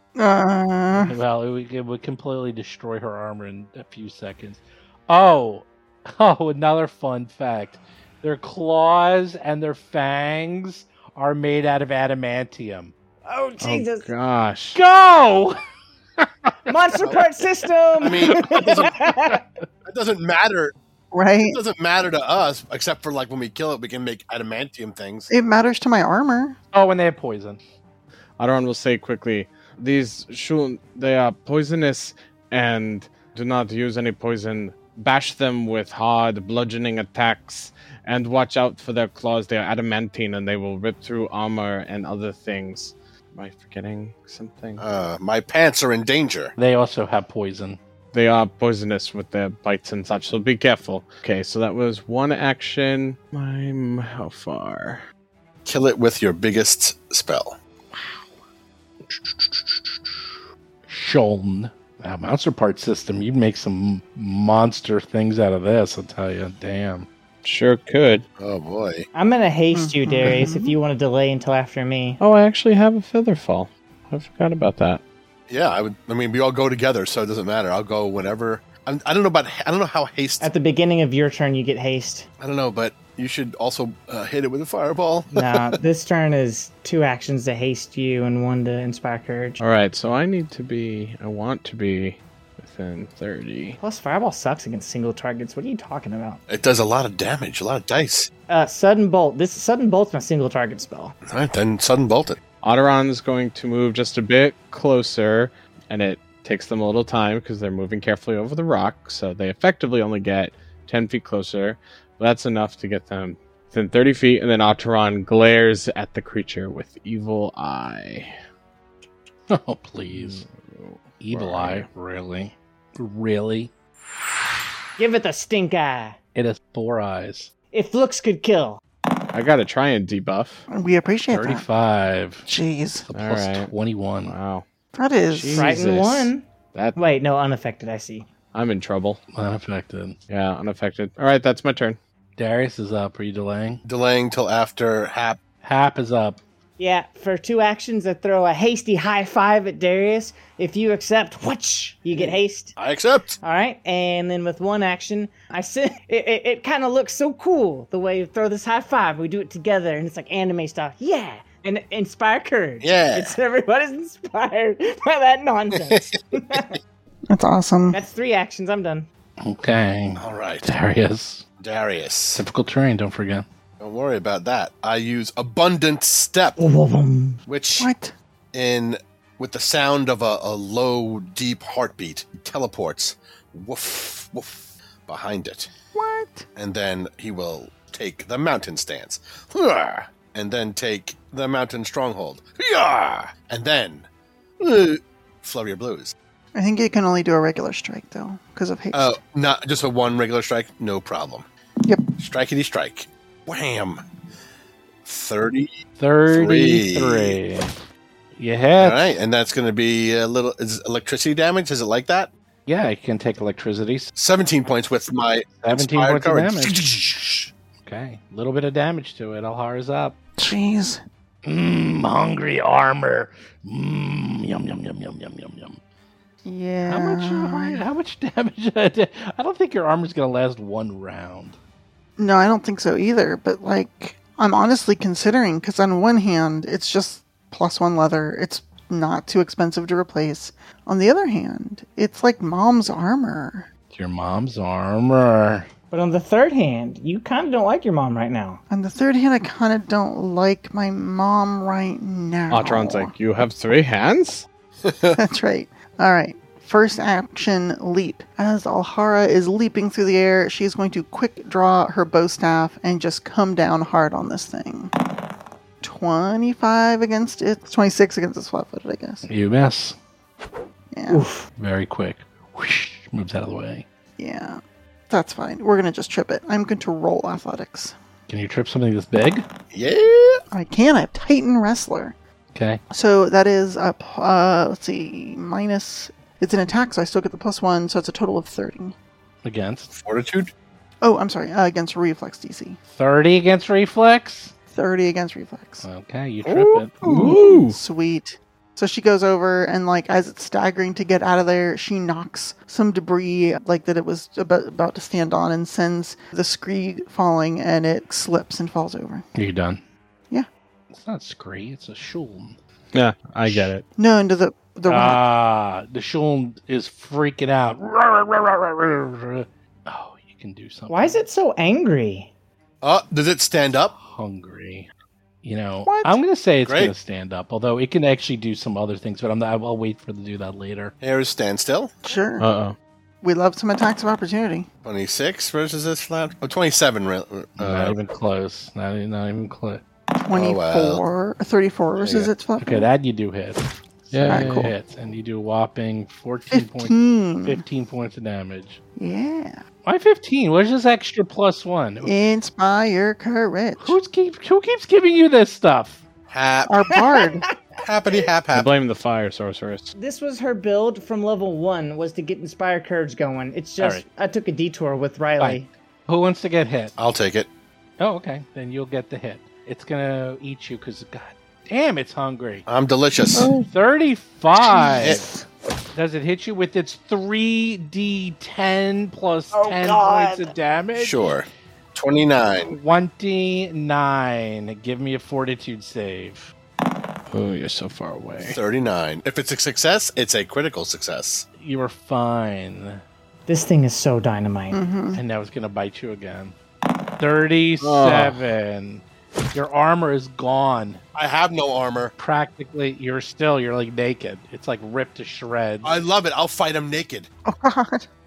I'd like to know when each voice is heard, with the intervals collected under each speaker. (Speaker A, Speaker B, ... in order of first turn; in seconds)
Speaker A: 0.1-1.1, 21.1-21.6, 25.3-26.6, 69.7-70.8, 130.7-131.7, 132.4-133.0, 134.9-135.7, 167.3-168.0, 177.8-178.1, 185.9-186.5, 196.5-199.2, 220.4-221.0, 226.4-227.8, 232.2-243.7, 248.7-253.1, 255.2-264.9, 265.8-269.2, 270.9-271.2, 274.2-277.9, 280.5-282.1, 282.9-288.9, 291.0-292.8, 294.7-295.8, 296.5-309.2, 313.5-315.2, 325.8-326.2, 332.0-332.4, 333.2-334.7, 340.1-342.9, 344.3-344.7, 346.5-347.6, 349.0-349.6, 352.0-354.0, 356.6-357.5, 374.5-375.4, 394.7-395.2, 407.4-408.1
Speaker B: 1.0-12.9, 14.7-15.6, 16.2-17.4, 18.2-19.4, 26.7-27.6, 46.5-47.8, 59.1-60.2, 60.9-67.1, 119.5-120.4, 121.2-123.7, 126.3-127.5, 131.3-132.5, 133.0-134.3, 139.3-140.2, 142.4-143.8, 145.6-146.4, 169.4-171.4, 172.3-173.4, 206.0-207.8, 208.3-209.2, 212.7-214.1, 215.6-216.8, 217.8-220.2, 221.4-225.8, 226.9-231.6, 243.9-245.7, 269.2-269.9, 271.6-273.8, 278.3-279.4, 282.5-282.8, 289.4-289.9, 292.9-294.5, 295.8-297.3, 309.3-309.8, 310.9-312.6, 314.9-321.2, 324.0-324.9, 325.4-330.9, 337.6-339.8, 342.6-348.8, 349.8-352.1, 353.8-356.0, 365.4-366.9, 368.0-372.6, 373.6-375.2, 375.9-381.4, 382.7-386.5, 391.6-393.0, 395.1-396.6, 397.2-401.0, 402.2-405.9
Speaker C: 13.2-14.1, 16.7-19.4, 69.1-72.2, 80.4-82.3, 85.3-89.6, 93.8-96.4, 98.5-101.1, 125.0-126.2, 127.7-128.8, 135.5-138.3, 146.8-152.8, 153.4-166.7, 167.9-169.1, 176.6-177.4, 245.9-248.6, 271.1-271.5, 320.9-322.3, 356.9-357.5, 359.9-365.7, 379.5-380.5, 393.5-394.8
Speaker D: 13.6-14.8, 28.4-44.8, 48.1-55.0, 67.4-68.2, 72.2-75.0, 89.6-93.8, 102.6-118.3, 120.1-121.9, 129.3-130.7, 133.1-133.7, 134.2-134.6, 135.3-137.0, 138.5-139.2, 140.3-142.0, 252.5-254.5, 297.0-297.8, 312.9-313.9, 332.4-332.7, 344.1-344.7, 358.5-359.9, 373.4-373.6, 387.3-388.6, 397.8-398.4
Speaker E: 18.0-18.9, 19.9-20.7, 21.5-25.3, 44.8-46.5, 55.6-57.5, 68.4-69.1, 75.5-80.5, 82.4-85.8, 96.5-98.3, 101.3-102.4, 143.8-145.4, 152.8-153.4, 162.8-163.3, 165.8-166.2, 170.2-170.7, 171.6-172.4, 173.8-176.6, 177.4-177.9, 178.5-185.7, 186.6-194.1, 194.6-196.1, 198.9-201.5, 202.2-204.0, 205.0-205.8, 206.3-207.4, 208.8-212.3, 214.1-217.5, 254.8-255.2, 279.7-280.4, 289.9-290.5, 322.8-323.9, 326.6-326.9, 331.0-331.9, 334.8-338.0, 340.3-341.0, 342.0-342.3, 356.3-356.9, 357.8-358.7, 367.0-367.5, 372.7-373.5, 380.9-382.8, 388.4-391.4, 401.1-402.1, 405.8-407.3